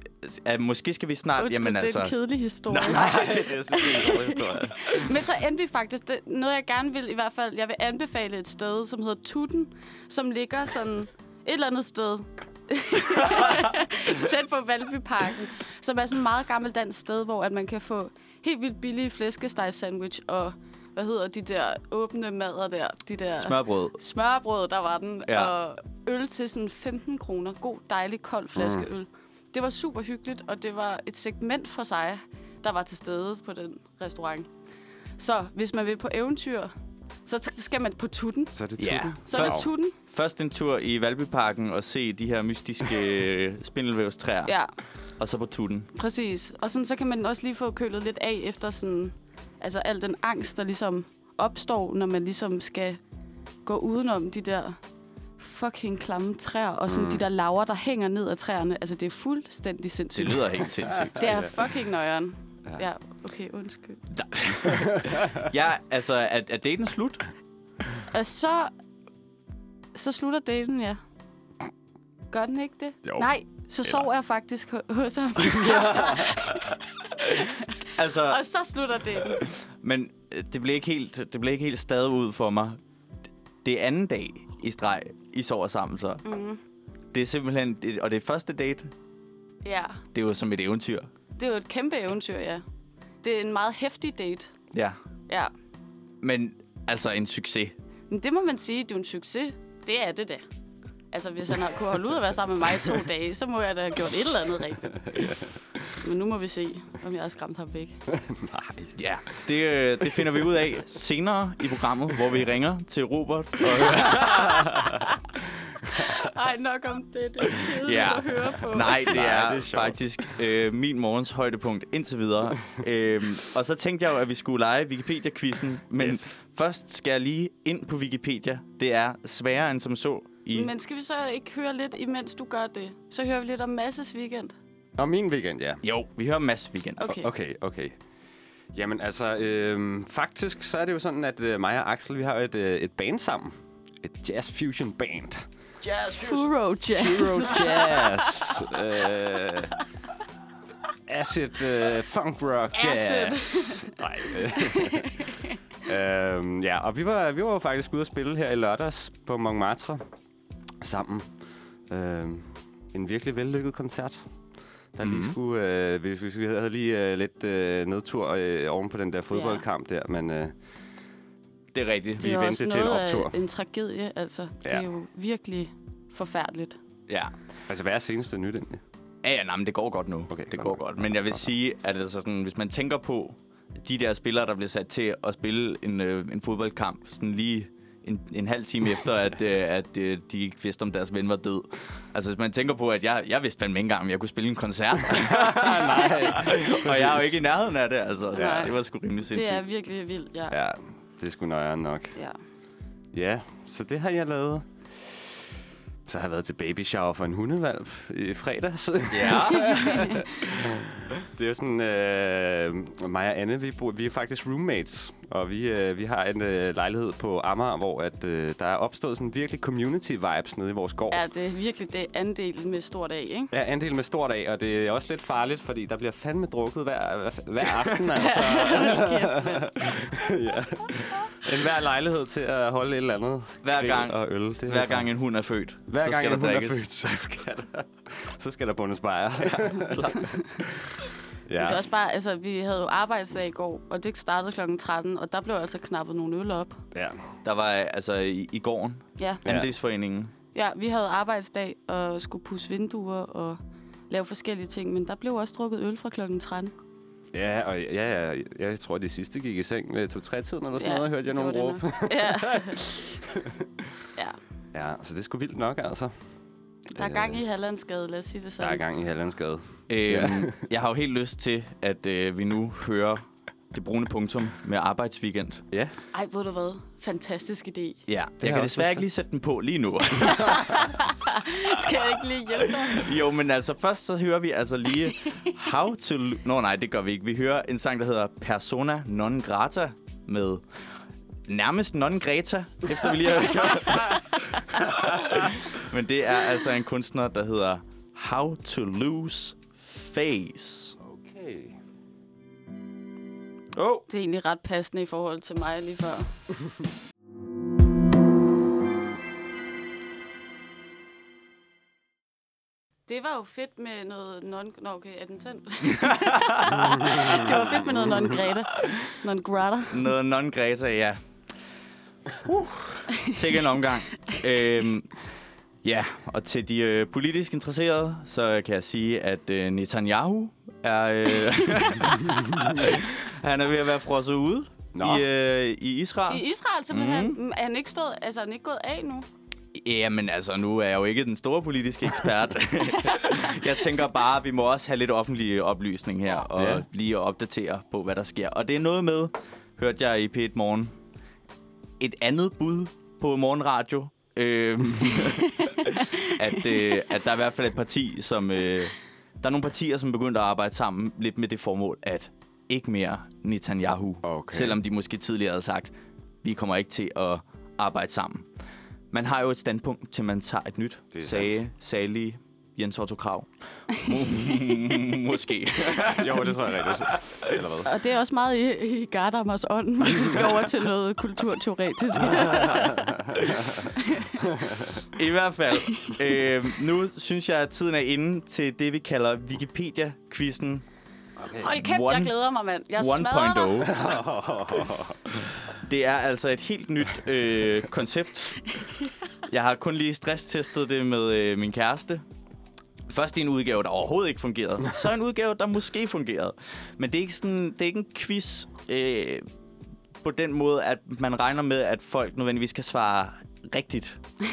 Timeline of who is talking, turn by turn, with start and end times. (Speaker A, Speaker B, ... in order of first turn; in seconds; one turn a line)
Speaker A: 0.2-2.1
Speaker B: 1.4-34.5
Speaker A: 2.7-3.5
Speaker C: 2.8-5.1
Speaker A: 23.4-23.9
Speaker A: 25.3-25.5
Speaker C: 28.6-28.9
Speaker B: 35.2-36.7
Speaker B: 37.2-38.6
Speaker C: 38.5-39.7
Speaker A: 38.8-44.5
Speaker B: 39.2-39.9
Speaker A: 45.2-45.9
Speaker B: 45.9-53.0
Speaker B: 53.6-54.8
Speaker B: 55.4-60.6
Speaker C: 56.9-57.2
Speaker A: 60.1-61.3
Speaker C: 61.0-61.4
Speaker B: 61.1-64.0
Speaker A: 64.1-67.2
Speaker B: 68.1-68.7
Speaker B: 69.9-71.0
Speaker B: 72.3-79.5
Speaker C: 75.6-76.2
Speaker A: 77.9-78.4
Speaker A: 79.4-82.8
Speaker A: 83.6-86.2
Speaker B: 86.2-86.6
Speaker A: 87.1-88.9
Speaker B: 89.6-90.0
Speaker A: 90.1-91.1
Speaker B: 91.4-92.6
Speaker B: 93.2-94.5
Speaker A: 96.2-97.7
Speaker B: 98.1-100.4
Speaker B: 101.1-105.2
Speaker C: 105.1-105.4
Speaker B: 106.0-108.0
Speaker C: 108.1-109.0
Speaker A: 109.0-114.7
Speaker C: 113.9-114.9
Speaker B: 115.9-119.2
Speaker A: 117.7-130.7
Speaker C: 119.0-120.3
Speaker C: 126.0-126.3
Speaker B: 130.5-134.5
Speaker C: 135.0-135.8
Speaker A: 135.8-137.1
Speaker B: 137.0-137.3
Speaker C: 137.1-137.9
Speaker C: 138.7-145.4
Speaker A: 145.8-146.5
Speaker B: 146.2-148.6
Speaker C: 146.9-149.7
Speaker C: 151.1-155.3
Speaker B: 152.7-153.9
Speaker B: 154.6-155.5
Speaker C: 155.8-160.0
Speaker C: 160.8-161.3
Speaker C: 161.9-164.3
Speaker C: 164.9-170.5
Speaker A: 165.0-165.4
Speaker B: 169.3-169.6
Speaker A: 171.7-172.3
Speaker C: 172.2-173.3
Speaker B: 172.2-176.8
Speaker A: 177.1-177.3
Speaker C: 177.7-178.8
Speaker A: 179.2-199.6
Speaker C: 180.3-180.8
Speaker C: 195.1-197.4
Speaker B: 198.3-198.7
Speaker C: 198.3-198.7
Speaker B: 199.3-200.5
Speaker C: 200.5-202.1
Speaker C: 203.1-205.3
Speaker C: 206.1-221.2
Speaker A: 209.1-210.0
Speaker B: 209.5-210.2
Speaker B: 221.1-223.5
Speaker C: 223.5-235.1
Speaker B: 228.2-230.0
Speaker A: 233.6-236.8
Speaker C: 235.9-241.8
Speaker A: 239.9-240.2
Speaker B: 241.6-246.8
Speaker C: 246.9-247.2
Speaker A: 247.4-250.3
Speaker B: 249.2-249.4
Speaker C: 249.4-249.7
Speaker B: 250.5-256.7
Speaker C: 257.3-263.6
Speaker B: 260.8-262.9
Speaker C: 264.7-266.1
Speaker B: 266.9-268.8
Speaker C: 266.9-267.4
Speaker C: 268.6-270.6
Speaker A: 269.9-275.6
Speaker B: 276.1-278.0
Speaker A: 278.1-280.9
Speaker C: 278.4-279.0
Speaker B: 280.3-283.1
Speaker A: 282.6-290.6
Speaker A: 291.5-301.0
Speaker C: 301.0-301.8
Speaker A: 303.7-304.1
Speaker B: 304.1-306.3
Speaker B: 313.1-320.1
Speaker A: 315.8-317.2
Speaker A: 318.7-319.1
Speaker A: 319.9-321.2
Speaker A: 322.4-325.2
Speaker A: 325.8-337.4
Speaker C: 334.9-335.2
Speaker B: 336.3-339.2
Speaker A: 339.7-350.9
Speaker C: 346.6-346.8
Speaker A: 352.0-368.5
Speaker C: 364.2-364.8
Speaker A: 369.1-377.6
Speaker C: 371.1-371.5
Speaker C: 376.0-377.9
Speaker B: 377.8-383.2
Speaker C: 382.3-383.7
Speaker B: 383.8-384.4
Speaker C: 384.5-385.0
Speaker A: 385.1-390.8
Speaker C: 391.4-391.7
Speaker B: 391.6-393.9
Speaker A: 391.7-392.3
Speaker A: 392.9-394.1
Speaker C: 393.8-395.4
Speaker A: 395.8-398.7
Speaker A: 399.5-402.2
Speaker A: 403.1-409.4
Speaker A: 410.2-414.2